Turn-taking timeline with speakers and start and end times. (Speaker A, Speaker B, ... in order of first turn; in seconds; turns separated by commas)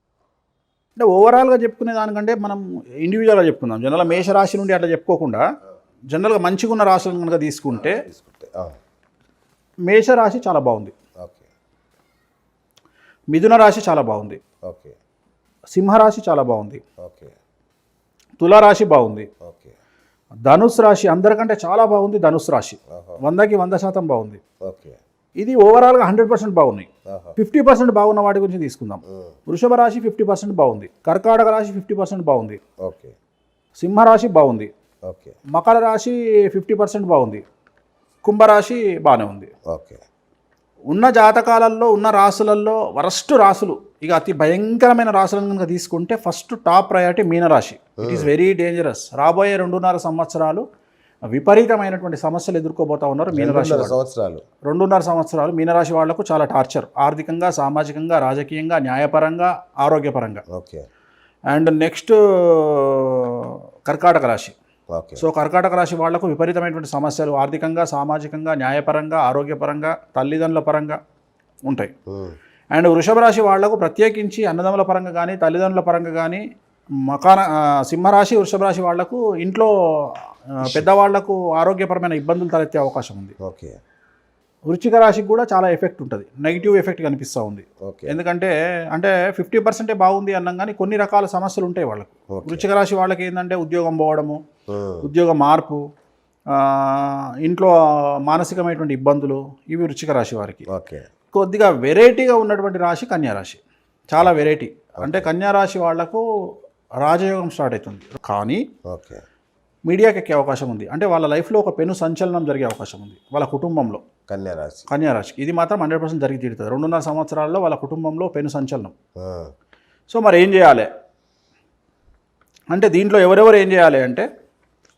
Speaker A: 1.0-5.4, Speaker A: 6.1-8.1, Speaker B: 7.8-8.8, Speaker A: 9.9-10.9, Speaker B: 11.2-11.5, Speaker A: 13.3-14.4, Speaker B: 14.7-15.0, Speaker A: 15.7-16.8, Speaker B: 17.0-17.3, Speaker A: 18.4-19.3, Speaker B: 19.4-19.8, Speaker A: 20.5-24.4, Speaker B: 22.9-23.2, Speaker B: 24.6-25.0, Speaker A: 25.4-32.6, Speaker B: 27.1-27.4, Speaker B: 29.1-29.3, Speaker B: 32.8-33.1, Speaker A: 33.8-34.7, Speaker B: 35.1-35.4, Speaker A: 35.5-37.4, Speaker A: 38.2-39.5, Speaker B: 39.7-40.0, Speaker A: 40.9-50.6, Speaker B: 48.0-48.3, Speaker A: 51.3-54.0, Speaker B: 53.3-54.4, Speaker A: 54.7-60.4, Speaker B: 60.5-60.8, Speaker A: 61.5-64.5, Speaker B: 64.9-65.2, Speaker A: 65.2-71.0, Speaker B: 72.1-72.4, Speaker A: 72.7-76.4, Speaker A: 77.1-83.3, Speaker B: 83.4-83.8, Speaker A: 84.7-94.4, Speaker B: 87.8-88.2, Speaker B: 92.3-92.7, Speaker B: 94.7-95.1, Speaker A: 95.0-95.8, Speaker A: 96.5-97.7, Speaker A: 98.3-100.7, Speaker B: 100.7-101.0, Speaker A: 101.3-106.2, Speaker B: 105.0-105.3, Speaker A: 107.0-108.6, Speaker B: 108.9-109.2, Speaker A: 109.9-114.0, Speaker B: 114.3-114.9, Speaker A: 114.9-118.9, Speaker B: 119.2-119.5, Speaker A: 120.1-120.9, Speaker A: 122.7-124.3